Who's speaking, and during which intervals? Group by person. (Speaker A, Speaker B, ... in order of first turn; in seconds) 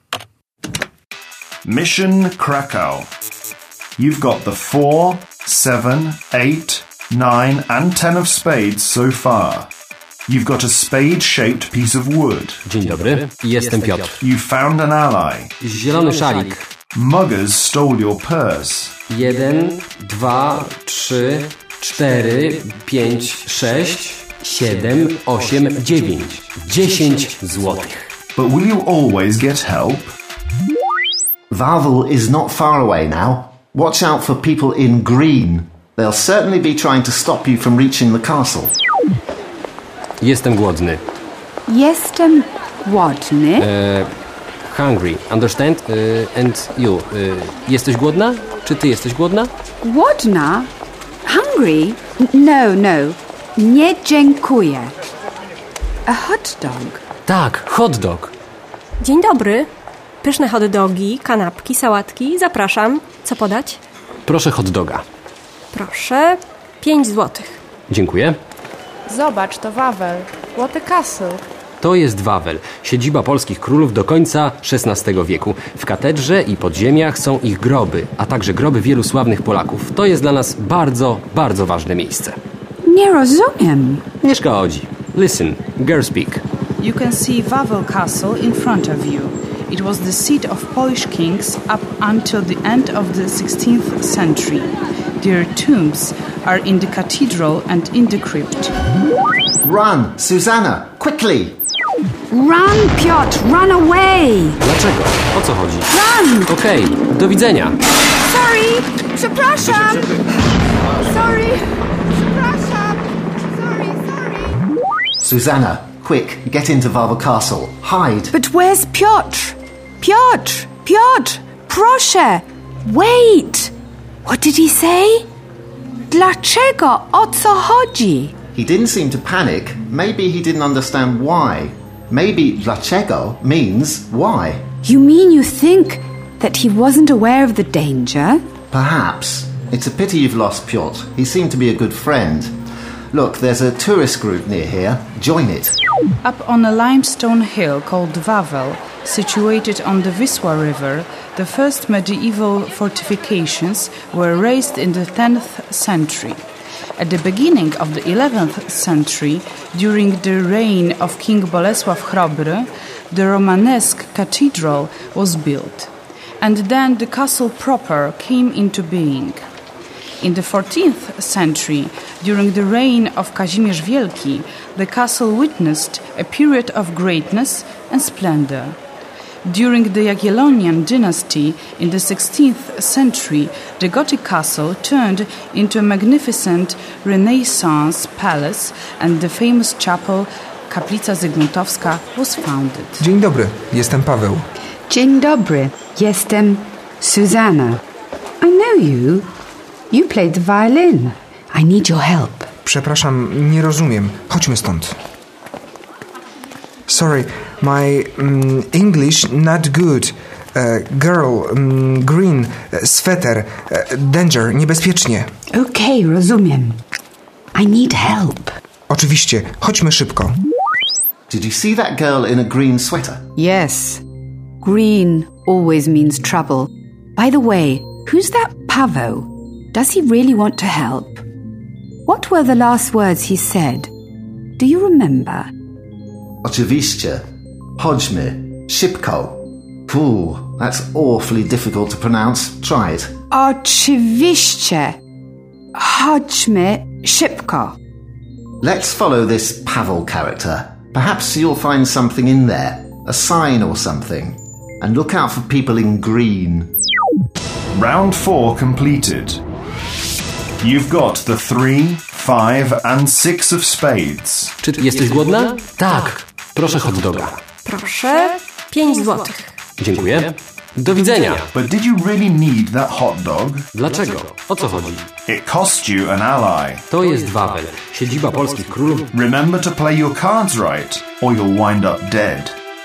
Speaker A: 1.6-3.1, 4.0-9.7, 10.3-12.6, 14.2-15.5, 16.9-19.0, 28.4-30.1, 257.7-259.4, 260.6-264.6, 271.5-273.6, 275.3-276.8, 279.1-282.6
Speaker B: 12.7-14.2, 15.6-16.6, 19.1-28.0, 40.2-41.0, 43.6-44.1, 44.7-49.5, 57.3-58.3, 64.3-65.0, 67.9-68.4, 71.8-82.4, 84.2-86.4, 104.6-105.9, 106.5-107.8, 264.6-267.4, 269.8-271.5, 273.8-275.1, 276.9-279.1
Speaker C: 31.5-38.8, 99.6-101.6, 115.2-118.3, 128.5-134.7, 138.7-142.5, 143.1-145.8, 221.3-223.2, 236.4-237.2, 237.8-243.1, 248.6-256.7
Speaker D: 41.7-43.7, 49.8-50.7, 51.3-54.9, 56.1-57.0, 82.8-84.1, 102.3-104.6, 105.9-106.5, 108.2-110.3, 111.0-113.0, 113.6-114.6, 118.3-123.7, 124.2-125.2, 126.1-128.3, 134.8-138.4, 194.9-197.8, 198.4-199.3, 199.9-202.5, 215.5-216.8, 217.5-218.5, 223.4-224.0, 224.6-231.2, 232.1-233.9, 234.6-235.5, 243.3-244.9, 245.8-247.8
Speaker E: 59.0-59.7, 60.2-63.8, 65.7-67.6, 267.6-269.4
Speaker F: 69.1-71.4
Speaker G: 86.8-98.7, 146.2-156.4, 157.0-169.4, 170.2-178.8, 179.4-193.0
Speaker H: 193.0-194.5, 202.6-204.9, 206.9-215.3, 218.9-220.3